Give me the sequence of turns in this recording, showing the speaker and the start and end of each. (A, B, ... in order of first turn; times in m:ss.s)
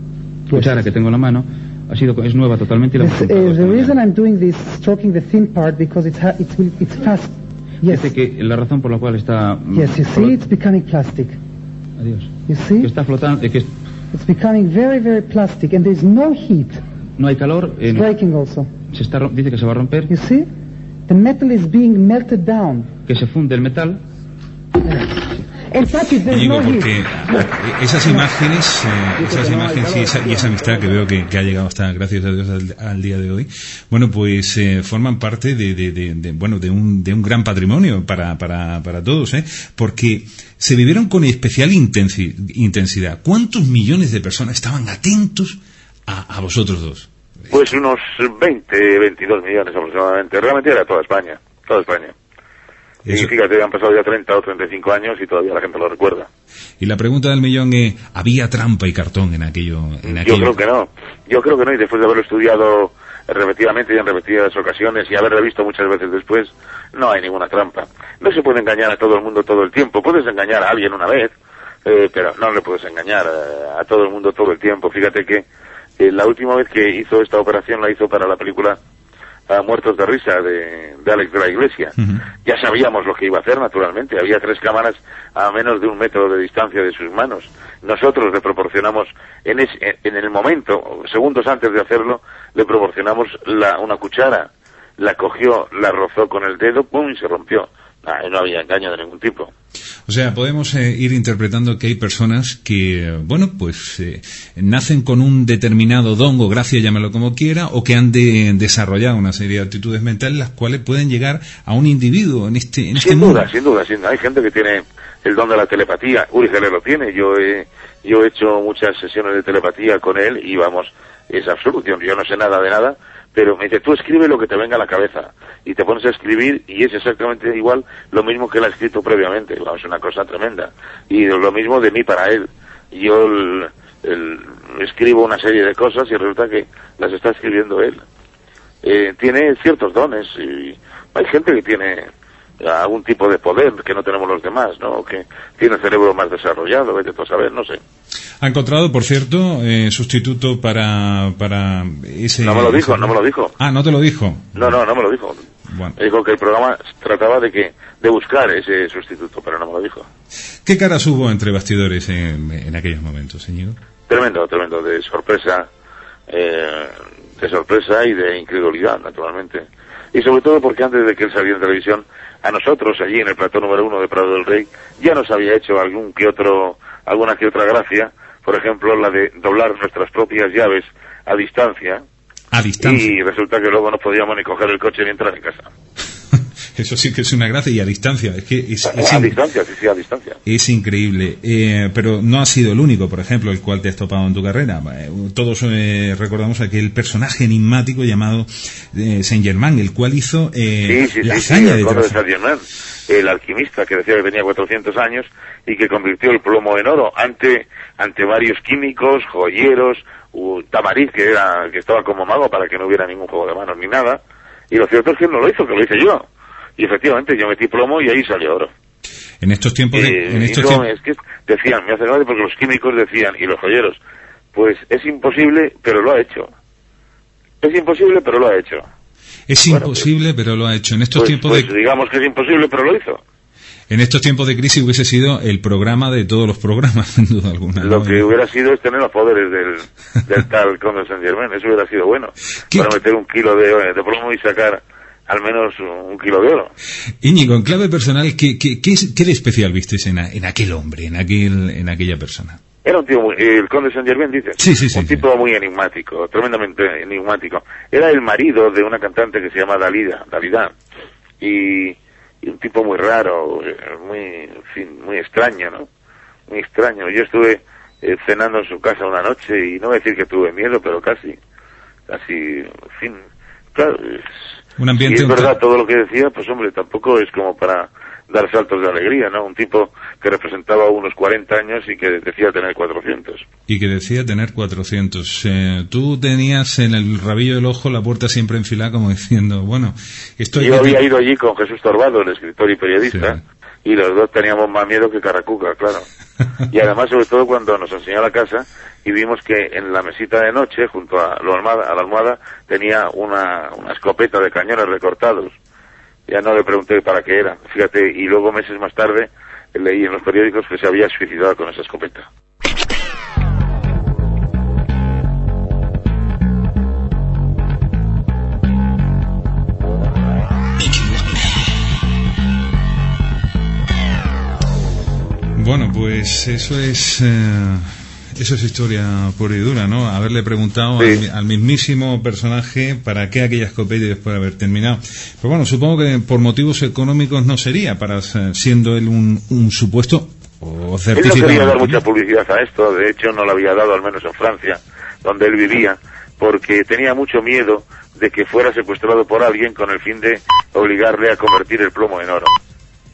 0:00.5-0:00.9 A
0:00.5-0:04.0 B
0:03.0-0:08.1 A
0:07.8-0:10.4 B
0:09.7-0:11.4 A
0:12.0-0:13.7 B
0:12.5-0:12.9 A
0:14.1-0:16.8 A
0:17.2-0:18.1 B
0:17.9-0:18.7 A
0:18.9-0:20.1 B
0:20.1-0:20.5 A
0:21.1-0:23.0 A
0:23.0-0:24.0 B
0:24.9-0:27.5 A
0:26.3-0:47.6 C
0:29.2-0:30.4 A
0:47.5-0:52.1 D
0:53.0-0:53.3 C
0:53.1-0:56.3 D
0:56.8-1:00.6 C
1:00.1-1:11.3 D
1:11.8-1:15.4 D
1:16.0-1:18.8 D
1:19.5-1:39.5 D
1:40.1-1:53.5 C
1:53.0-2:18.0 D
2:18.8-2:22.1 D
2:22.6-2:27.8 D
2:28.4-2:34.7 C
2:32.4-2:33.5 D
2:34.5-2:35.4 D
2:35.7-2:36.0 C
2:36.0-2:40.1 D
2:40.6-2:43.8 C
2:44.1-2:45.7 D
2:46.3-3:02.0 D
3:02.5-3:03.1 C
3:02.8-3:05.7 D
3:06.7-3:09.4 C
3:08.9-3:10.4 D
3:10.4-3:22.2 C
3:20.8-3:34.2 D
3:34.7-3:36.2 D
3:36.8-3:38.7 D
3:39.4-3:40.8 C
3:39.9-3:44.0 D
3:44.5-3:46.5 D
3:47.6-3:48.9 D
3:49.5-3:51.7 C
3:49.7-3:50.0 D
3:51.2-3:53.2 D
3:53.9-3:58.3 C
3:57.8-4:06.7 D
4:07.2-4:12.6 C
4:12.8-4:20.7 D
4:14.6-4:15.2 C
4:21.4-4:25.9 D
4:26.5-4:31.4 D
4:32.1-4:33.2 D
4:33.7-4:34.3 D
4:34.8-4:35.5 C
4:35.0-4:43.4 D
4:43.7-4:51.0 C
4:50.6-4:56.1 D
4:53.1-4:53.4 C
4:56.7-5:05.5 D
5:06.3-5:12.3 D
5:25.6-5:42.0 C
5:41.2-5:52.6 D